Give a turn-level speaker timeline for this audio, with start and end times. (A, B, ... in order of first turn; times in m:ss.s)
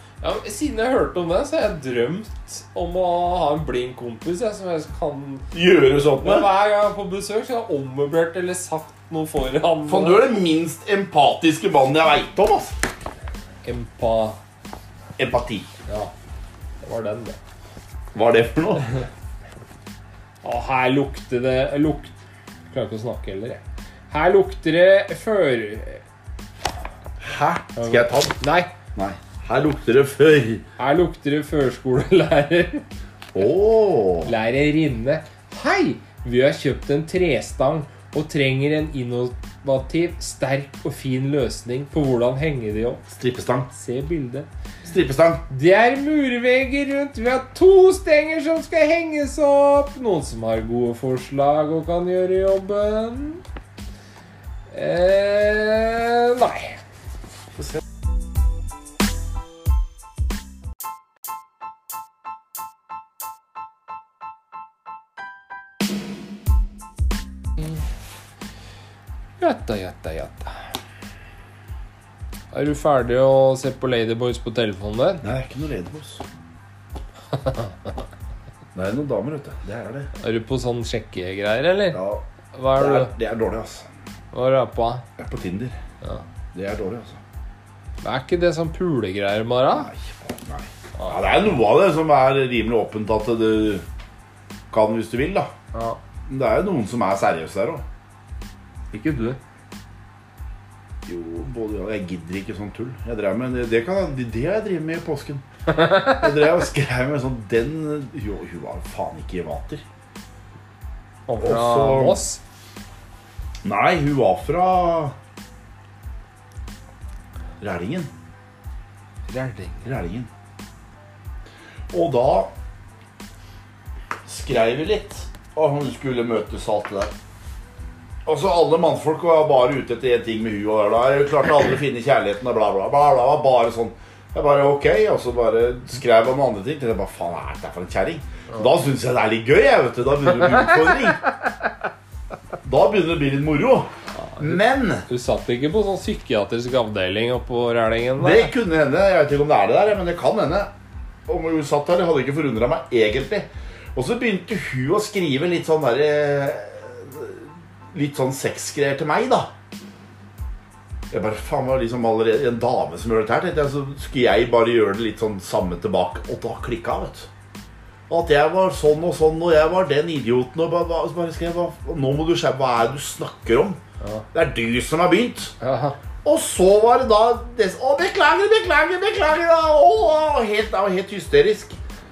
0:00.2-0:05.5 A
0:05.5-0:06.5 B
0:06.2-0:10.3 A
0:09.9-0:12.8 B
0:13.6-0:14.4 A
0:15.2-0:15.7 B
0:15.9-0:16.1 A
0:16.8-0:17.4 A
0:18.1-0:19.0 B
0:20.4-0:22.1 A
0:22.7-0:23.6 A
0:24.1-0:26.0 A
0:27.2-0:28.4 B
0:27.8-0:28.7 A
0:29.0-0:30.6 B
0:30.8-0:32.8 A
0:33.3-0:34.3 B
0:34.2-0:43.0 A
0:43.1-0:43.7 B
0:43.7-0:44.5 A
0:44.8-0:45.4 B
0:45.5-0:53.4 A
0:54.7-0:56.8 A
1:09.4-1:10.6 A
1:12.5-1:15.2 A
1:15.2-1:16.2 B
1:17.3-1:17.7 A
1:18.8-1:20.1 B
1:20.2-1:22.0 A
1:21.9-1:22.2 B
1:22.5-1:23.1 A
1:22.8-1:23.9 B
1:24.3-1:25.0 A
1:25.2-1:25.8 B
1:26.5-1:27.2 B
1:28.0-1:29.9 A
1:29.8-1:33.8 B
1:34.7-1:35.5 B
1:35.7-1:36.0 A
1:36.3-1:37.8 B
1:38.9-1:39.4 A
1:41.1-1:49.8 B
1:45.8-1:46.1 A
1:51.3-1:52.4 A
1:51.4-1:52.2 B
1:53.6-1:55.2 B
1:57.6-1:58.1 B
1:59.3-1:59.9 A
1:59.8-2:00.3 B
2:01.9-2:02.5 B
2:04.3-2:07.1 B
2:08.3-2:21.2 B
2:22.6-2:23.9 B
2:24.3-2:28.5 A
2:24.4-2:25.0 B
2:28.2-2:30.7 B
2:31.3-2:39.5 B
2:41.1-2:47.3 B
2:48.1-2:53.8 B
2:54.3-2:55.6 B
2:55.6-2:56.0 A
2:56.2-3:01.8 B